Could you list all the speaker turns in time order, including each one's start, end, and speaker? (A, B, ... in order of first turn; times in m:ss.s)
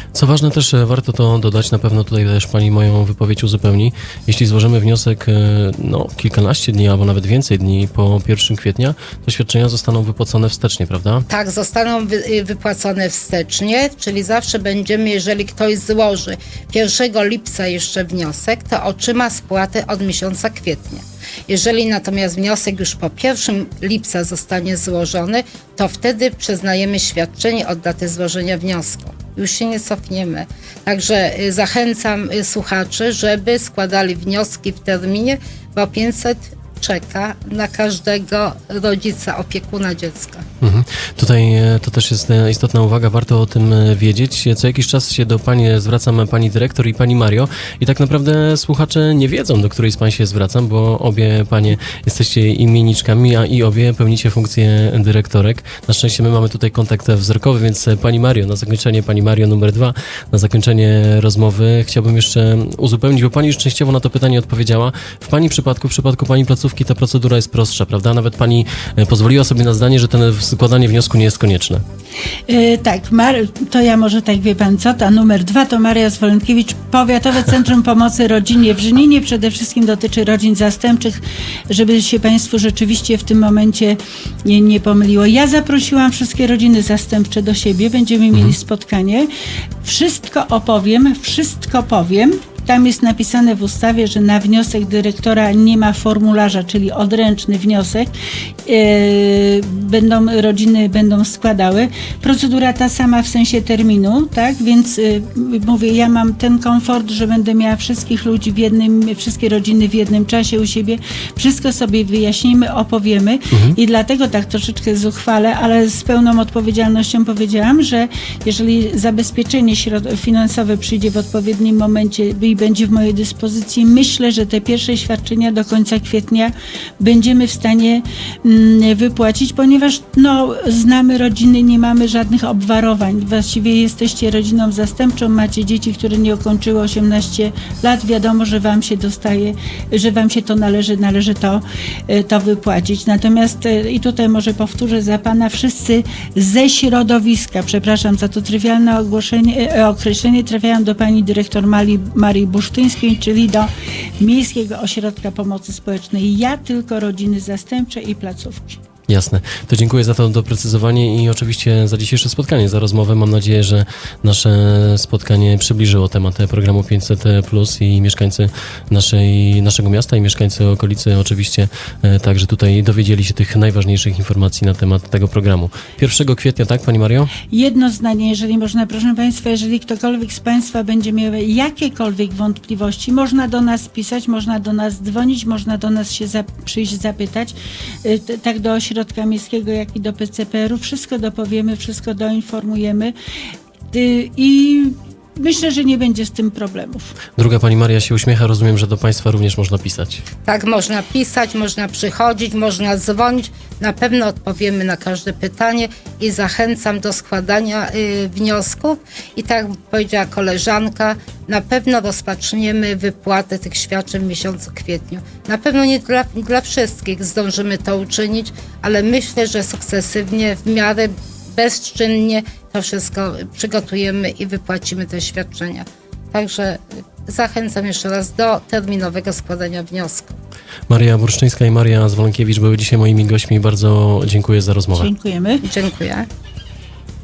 0:00.1-0:11.2 A
0:11.3-0:40.4 B
0:40.6-1:11.8 A
1:12.5-1:29.3 C
1:29.8-1:38.1 C
1:38.6-2:38.8 C
1:53.5-1:53.8 A
2:39.1-2:57.3 A
2:57.5-3:13.1 C
3:13.9-3:17.1 C
3:17.4-3:20.2 A
3:20.4-3:50.4 B
3:50.9-3:55.1 A
3:54.9-3:55.6 C
3:55.6-3:56.3 B